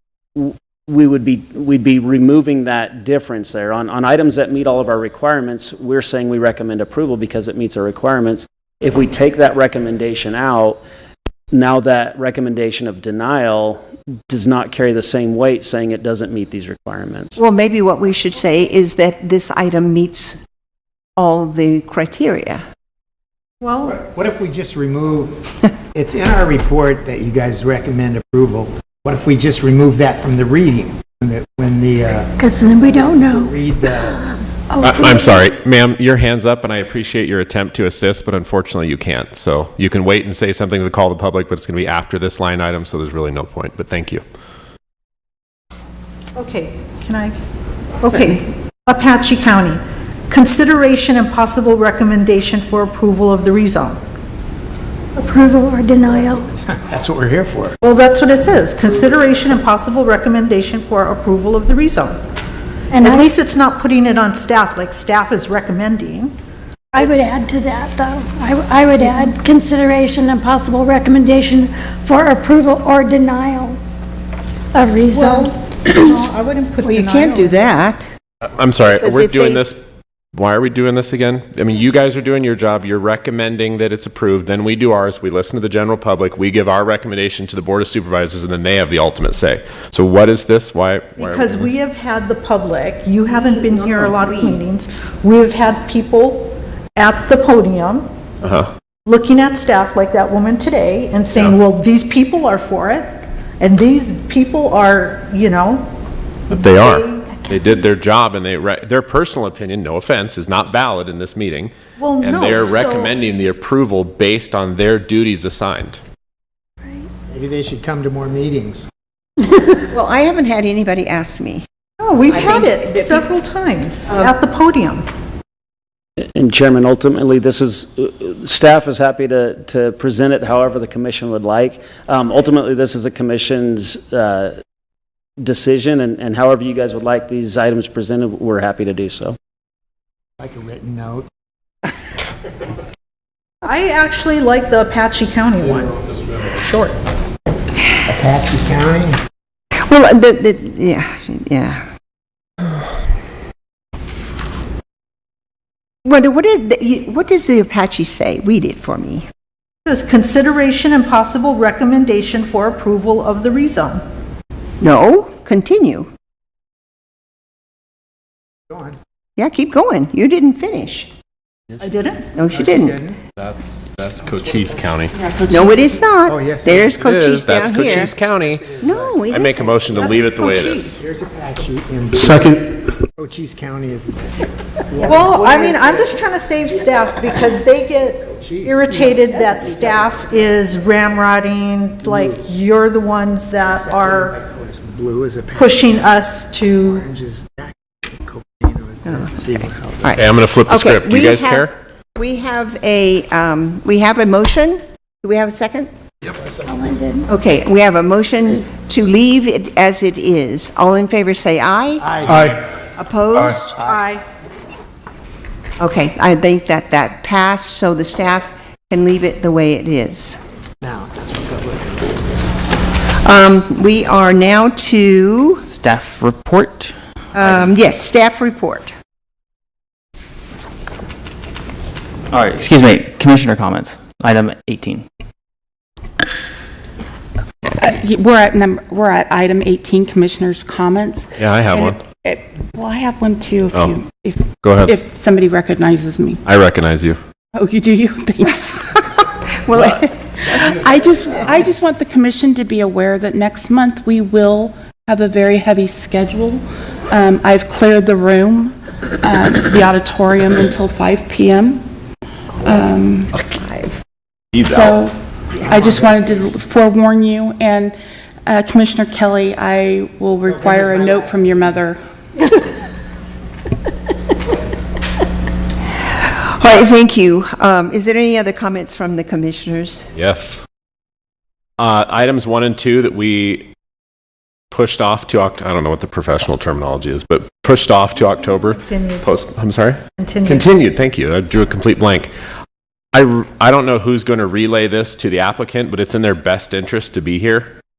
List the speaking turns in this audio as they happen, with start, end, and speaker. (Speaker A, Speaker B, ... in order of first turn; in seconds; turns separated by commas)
Speaker A: 0.3-10.8, Speaker A: 11.5-17.4, Speaker B: 17.4-20.4, Speaker B: 21.2-22.6, Speaker C: 23.6-24.0, Speaker D: 23.9-25.4, Speaker D: 25.9-32.3, Speaker E: 32.4-33.5, Speaker D: 32.8-34.2, Speaker E: 34.7-35.2, Speaker F: 34.8-44.2, Speaker C: 46.4-47.3, Speaker C: 48.0-54.0, Speaker E: 55.2-56.4, Speaker D: 56.7-57.8, Speaker C: 57.8-62.2, Speaker E: 62.9-63.2, Speaker C: 63.0-66.3, Speaker E: 66.9-73.8, Speaker C: 67.0-67.3, Speaker C: 69.0-69.3, Speaker E: 74.8-75.4, Speaker C: 75.1-77.7, Speaker B: 76.8-78.1, Speaker F: 78.6-79.8, Speaker B: 78.9-79.6, Speaker F: 80.3-91.8, Speaker C: 91.2-98.1, Speaker B: 93.3-94.6, Speaker F: 98.4-98.7, Speaker C: 99.1-105.9, Speaker C: 106.5-107.3, Speaker F: 106.5-116.0, Speaker C: 112.0-113.1, Speaker D: 117.3-118.9, Speaker B: 119.9-121.7, Speaker C: 122.0-125.0, Speaker B: 122.3-123.3, Speaker B: 124.1-124.3, Speaker A: 126.2-134.6, Speaker A: 135.4-139.4, Speaker D: 140.4-141.3, Speaker C: 143.6-147.0, Speaker D: 148.1-149.2, Speaker B: 149.8-151.8, Speaker B: 156.0-159.2, Speaker C: 159.9-164.0, Speaker B: 164.8-166.1, Speaker D: 168.7-169.0, Speaker B: 169.4-171.1, Speaker C: 171.8-172.3, Speaker B: 172.4-173.0, Speaker D: 172.4-173.2, Speaker F: 173.4-175.1, Speaker D: 174.2-174.9, Speaker G: 175.1-176.0, Speaker B: 175.5-178.2, Speaker D: 176.3-179.3, Speaker F: 176.9-178.7, Speaker B: 178.8-180.0, Speaker F: 179.3-181.1, Speaker C: 179.9-181.1, Speaker D: 181.0-182.6, Speaker D: 183.2-186.2, Speaker C: 185.0-194.4, Speaker D: 188.2-189.0, Speaker G: 188.9-189.8, Speaker D: 192.0-192.5, Speaker D: 193.6-196.1, Speaker C: 195.6-197.1, Speaker D: 196.8-200.3, Speaker B: 200.0-205.9, Speaker F: 200.2-201.7, Speaker E: 206.7-207.2, Speaker B: 207.3-212.1, Speaker D: 212.0-212.5, Speaker B: 212.9-213.8, Speaker C: 213.8-214.2, Speaker B: 215.8-220.4, Speaker D: 220.8-222.2, Speaker B: 223.2-225.7, Speaker H: 225.7-227.6, Speaker B: 227.3-228.9, Speaker H: 232.3-235.1, Speaker G: 237.7-246.4, Speaker F: 241.4-242.0, Speaker F: 243.7-244.0, Speaker F: 244.6-244.9, Speaker F: 246.5-247.2, Speaker G: 247.6-248.8, Speaker B: 249.6-250.1, Speaker G: 250.7-261.8, Speaker G: 262.6-263.3, Speaker B: 263.5-264.0, Speaker F: 264.5-264.9, Speaker G: 264.6-265.2, Speaker D: 265.6-266.5, Speaker G: 265.7-267.9, Speaker G: 268.5-272.0, Speaker D: 270.4-271.8, Speaker B: 276.1-280.1, Speaker F: 280.1-280.6, Speaker F: 281.8-283.7, Speaker F: 284.7-292.3, Speaker C: 288.7-289.3, Speaker C: 290.2-290.7, Speaker F: 293.1-297.7